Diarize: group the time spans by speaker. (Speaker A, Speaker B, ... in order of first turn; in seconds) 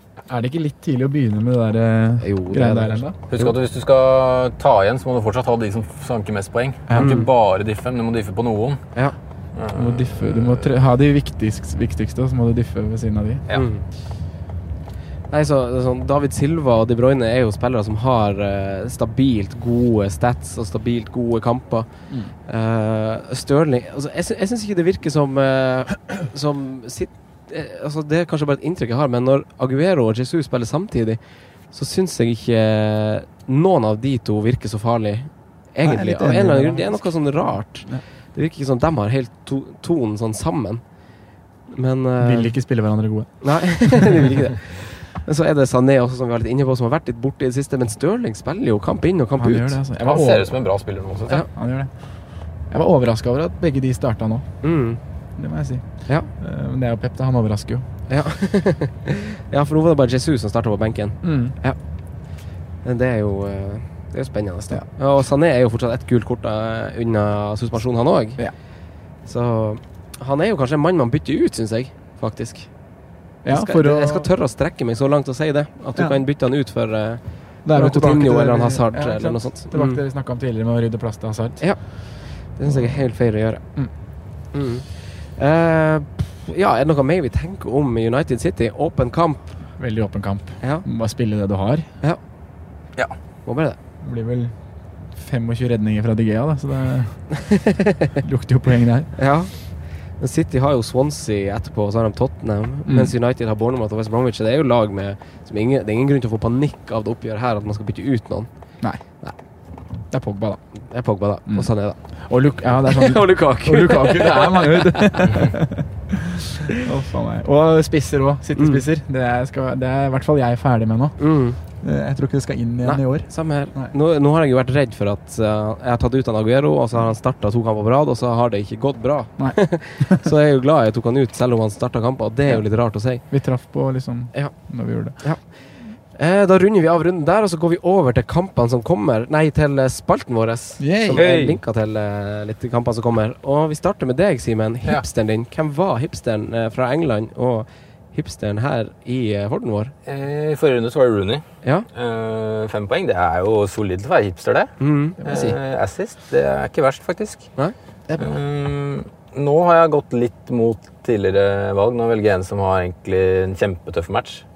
Speaker A: 0.3-3.5, 6.9-7.2, 9.7-13.4, 35.8-38.0, 42.2-44.2, 49.4-50.6, 51.5-54.8, 55.4-57.9, 61.2-61.6, 73.4-74.3, 75.9-76.2, 77.6-83.9, 89.8-91.9, 94.0-97.7, 98.2-99.2, 102.9-103.1, 108.8-109.2, 110.0-110.8, 111.5-124.0, 129.4-130.2, 132.5-135.5, 140.8-141.3, 155.2-155.5
Speaker B: 2.2-3.4, 7.0-7.3, 13.5-13.8, 15.3-41.0, 41.7-42.7, 43.4-49.8, 54.6-55.0, 58.1-80.0, 81.6-89.8, 93.5-93.8, 99.2-109.4, 110.9-115.5, 118.5-118.8, 121.2-121.6, 122.8-133.2, 134.3-149.9, 154.8-155.6, 157.6-158.3
Speaker C: 3.3-8.9, 9.5-10.7, 50.0-51.5, 141.1-141.6, 150.1-164.5